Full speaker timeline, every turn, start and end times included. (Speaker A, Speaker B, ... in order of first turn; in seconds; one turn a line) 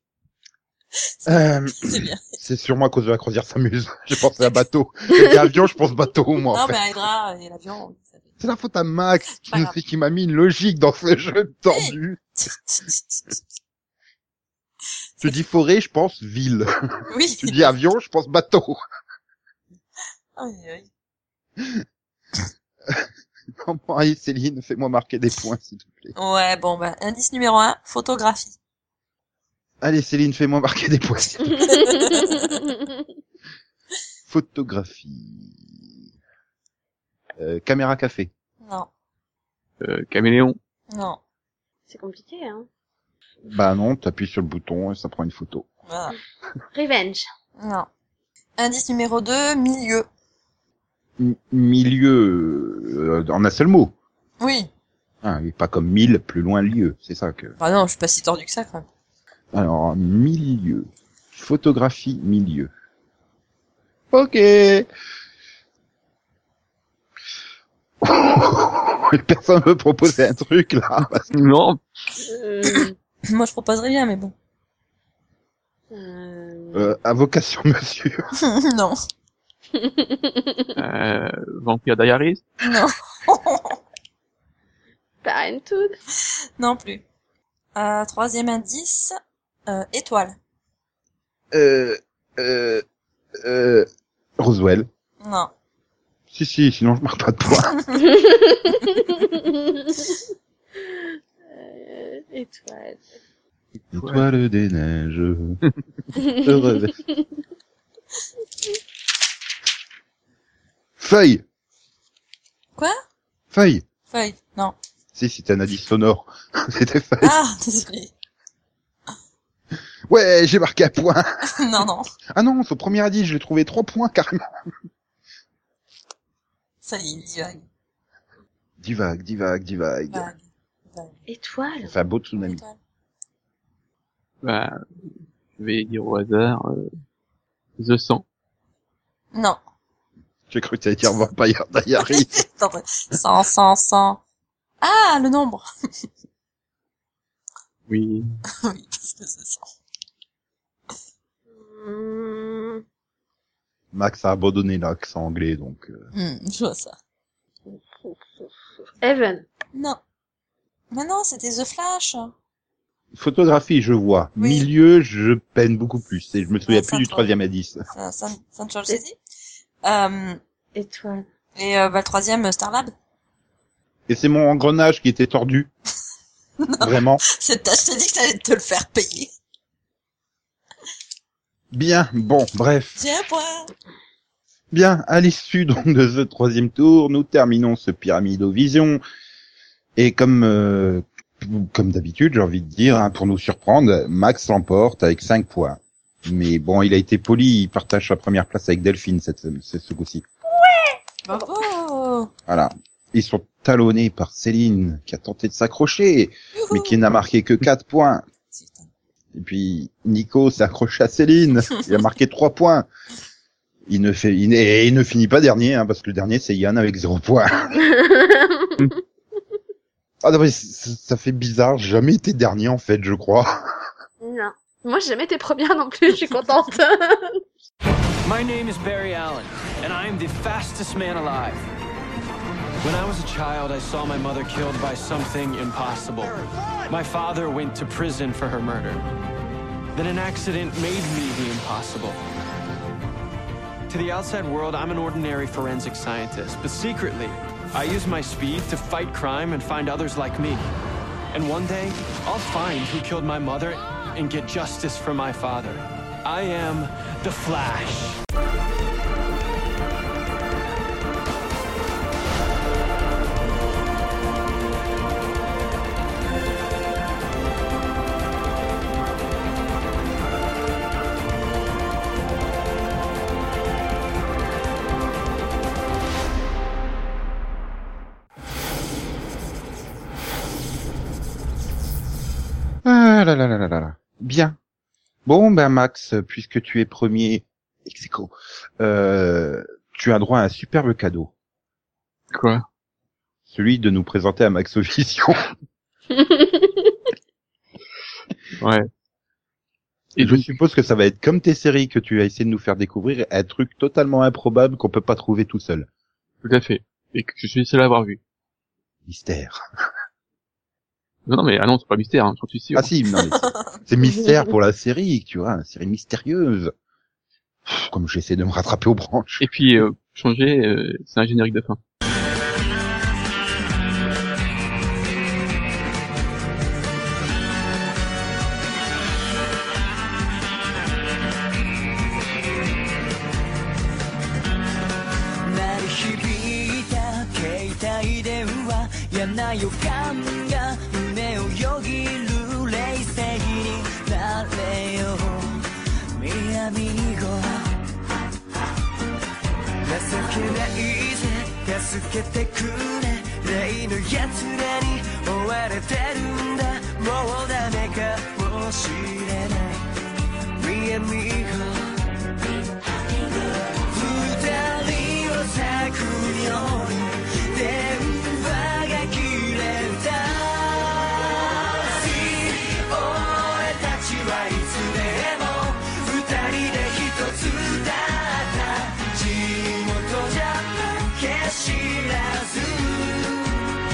Speaker A: 1.0-2.2
Speaker B: 1.3-6.8
Speaker A: 6.5-8.3
Speaker B: 8.4-12.2
Speaker A: 9.4-9.8
Speaker A: 11.7-13.4
Speaker B: 15.2-16.7
Speaker A: 17.1-17.7
Speaker B: 17.4-18.8
Speaker A: 20.4-20.9
Speaker B: 23.6-26.1
Speaker A: 26.2-28.6
Speaker B: 29.8-32.3
Speaker A: 31.5-32.5
Speaker C: 31.7-32.1
Speaker B: 34.3-35.9
Speaker B: 37.4-38.3
Speaker A: 38.6-38.9
Speaker D: 39.8-40.6
Speaker A: 40.9-41.2
Speaker C: 41.9-42.7
Speaker B: 43.5-45.7
Speaker A: 45.9-46.1
Speaker C: 46.7-47.3
Speaker A: 47.6-47.9
Speaker A: 48.6-50.1
Speaker B: 51.2-53.9
Speaker A: 54.4-54.7
Speaker B: 55.2-57.6
Speaker A: 57.6-58.9
Speaker B: 59.5-62.7
Speaker B: 64.1-64.9
Speaker B: 68.0-71.3
Speaker D: 71.3-71.8
Speaker C: 72.2-73.0
Speaker A: 73.3-74.3
Speaker C: 75.9-77.0
Speaker B: 76.7-78.2
Speaker A: 78.4-79.0
Speaker C: 79.8-80.8
Speaker D: 80.8-82.5
Speaker A: 82.6-83.8
Speaker C: 85.2-86.0
Speaker A: 86.6-87.0
Speaker A: 87.8-89.2
Speaker A: 89.7-90.4
Speaker B: 91.5-92.8
Speaker B: 93.4-93.9
Speaker B: 94.4-94.9
Speaker A: 95.2-95.5
Speaker B: 96.3-97.8
Speaker C: 98.0-100.2
Speaker C: 100.8-103.1
Speaker B: 103.9-105.6
Speaker D: 104.0-104.3
Speaker C: 106.2-106.5
Speaker B: 106.2-107.0
Speaker B: 111.0-111.4
Speaker B: 113.5-113.9
Speaker A: 114.1-114.8
Speaker B: 115.2-117.3
Speaker A: 117.2-118.1
Speaker B: 120.1-121.2
Speaker A: 121.5-122.1
Speaker B: 122.4-124.4
Speaker A: 126.8-127.6
Speaker B: 128.8-130.3
Speaker A: 130.1-131.2
Speaker C: 131.3-131.9
Speaker B: 131.8-132.6
Speaker A: 132.4-132.8
Speaker D: 134.4-134.8
Speaker D: 135.6-136.9
Speaker D: 137.8-138.2
Speaker A: 139.3-139.6
Speaker B: 140.5-142.4
Speaker A: 142.0-144.2
Speaker A: 144.8-145.7
Speaker D: 147.9-148.4
Speaker A: 148.6-149.7
Speaker C: 151.5-152.8
Speaker B: 153.9-156.1
Speaker A: 156.1-157.0
Speaker C: 157.7-158.5
Speaker C: 159.0-159.5
Speaker A: 159.7-160.0
Speaker A: 160.9-162.3
Speaker B: 163.1-167.8
Speaker A: 164.4-164.7
Speaker A: 166.7-167.3
Speaker A: 167.9-169.2
Speaker A: 169.8-170.4
Speaker C: 170.8-171.3
Speaker A: 171.6-172.9
Speaker B: 174.1-175.7
Speaker A: 176.6-179.3
Speaker B: 176.8-177.2
Speaker B: 181.7-183.0
Speaker A: 183.0-183.7
Speaker B: 184.7-189.0
Speaker B: 190.0-200.3
Speaker C: 200.6-201.4
Speaker A: 201.3-202.3
Speaker B: 202.5-208.2
Speaker A: 206.5-207.0
Speaker A: 208.5-208.9
Speaker B: 209.3-212.9
Speaker B: 213.9-217.8
Speaker C: 217.8-219.0
Speaker B: 220.2-223.5
Speaker C: 224.2-227.4
Speaker E: 228.2-231.7
Speaker E: 232.8-239.1
Speaker E: 239.9-242.2
Speaker E: 243.9-250.7
Speaker E: 251.3-258.2
Speaker B: 282.9-284.6
Speaker B: 285.3-291.3
Speaker D: 292.3-292.6
Speaker B: 293.5-295.4
Speaker C: 296.1-296.9
Speaker D: 298.6-298.9
Speaker D: 300.2-300.5
Speaker B: 300.2-305.9
Speaker D: 306.4-308.2
Speaker B: 309.1-309.6
Speaker D: 311.3-312.9
Speaker B: 312.8-316.7
Speaker C: 314.1-314.4
Speaker B: 317.7-319.5
Speaker D: 319.4-321.8
Speaker F: 335.4-347.7
Speaker F: 349.8-359.8
Speaker F: 360.6-361.9
Speaker F: 363.1-383.6